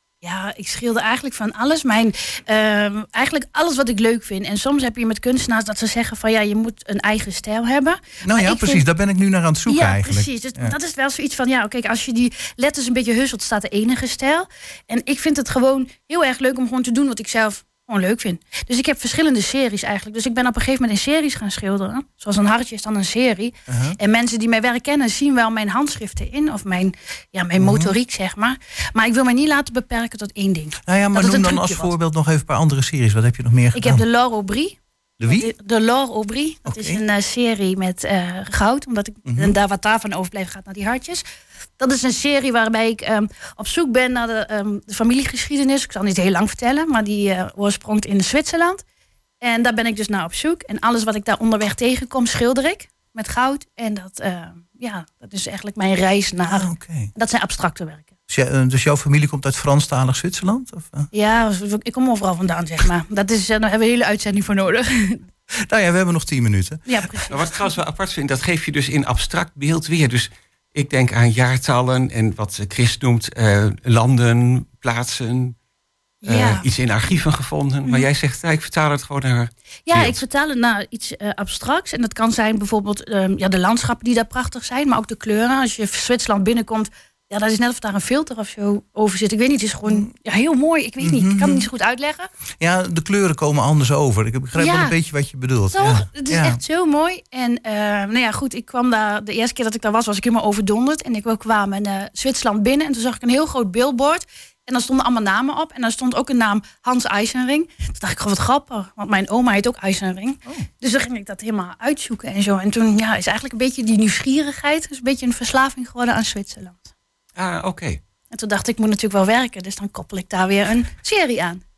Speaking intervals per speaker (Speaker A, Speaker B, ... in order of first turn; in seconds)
Speaker A: 0.2-8.9, 9.7-31.9, 33.7-41.2, 41.8-48.8, 49.4-58.1, 61.1-65.2, 66.8-67.7, 76.2-76.7, 79.8-92.3, 94.5-94.9, 95.7-116.9, 118.3-121.6
Speaker B: 8.2-10.7, 23.7-23.9, 27.6-27.9, 30.8-34.0, 35.2-35.5, 36.6-37.0, 39.2-39.6, 56.4-57.1, 58.3-61.1, 65.5-66.8, 91.0-91.7, 92.6-96.6
Speaker C: 67.3-75.5, 76.2-80.2, 117.3-118.0